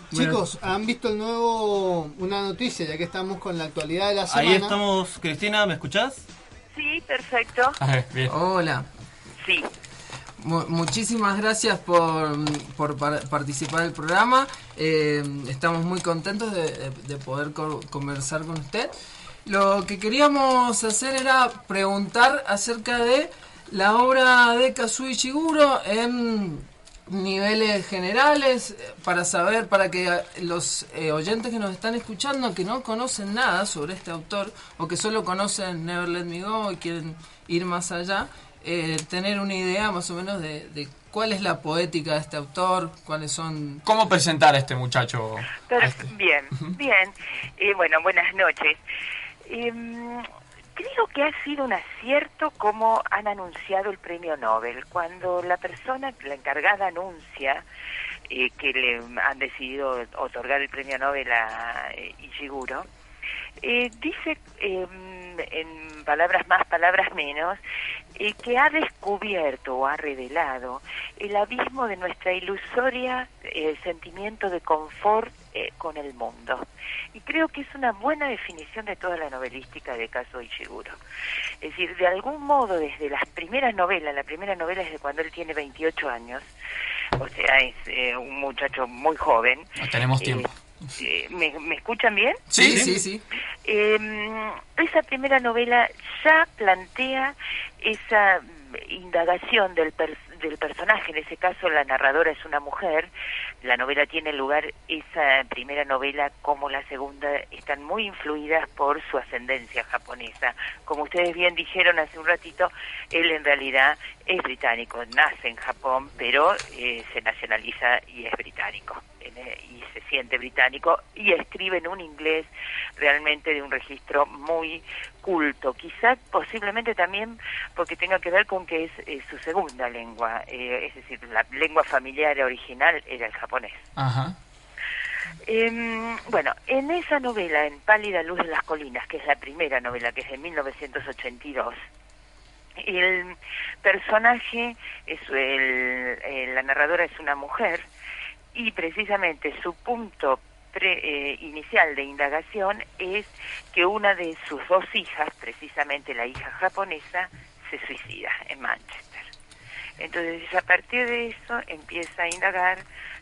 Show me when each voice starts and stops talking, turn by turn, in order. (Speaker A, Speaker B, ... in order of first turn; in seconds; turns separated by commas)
Speaker A: 0.1-4.8, Speaker B: 0.1-0.4, Speaker C: 4.3-6.3, Speaker D: 6.7-7.8, Speaker E: 7.8-8.3, Speaker B: 8.3-8.9, Speaker D: 9.4-9.7, Speaker B: 10.4-18.9, Speaker B: 19.5-43.8, Speaker E: 43.9-46.8, Speaker D: 45.7-48.8, Speaker D: 49.5-57.6, Speaker D: 58.3-62.9, Speaker D: 63.6-67.6, Speaker D: 68.2-81.0, Speaker D: 81.6-86.5, Speaker D: 87.2-89.7, Speaker E: 89.8-90.5, Speaker D: 90.2-92.4, Speaker E: 92.5-92.8, Speaker B: 92.6-93.2, Speaker C: 92.6-93.0, Speaker D: 93.7-103.1, Speaker D: 103.6-133.8, Speaker E: 134.0-134.4, Speaker D: 135.4-141.8, Speaker D: 142.8-147.9, Speaker D: 148.5-159.3, Speaker D: 160.0-162.8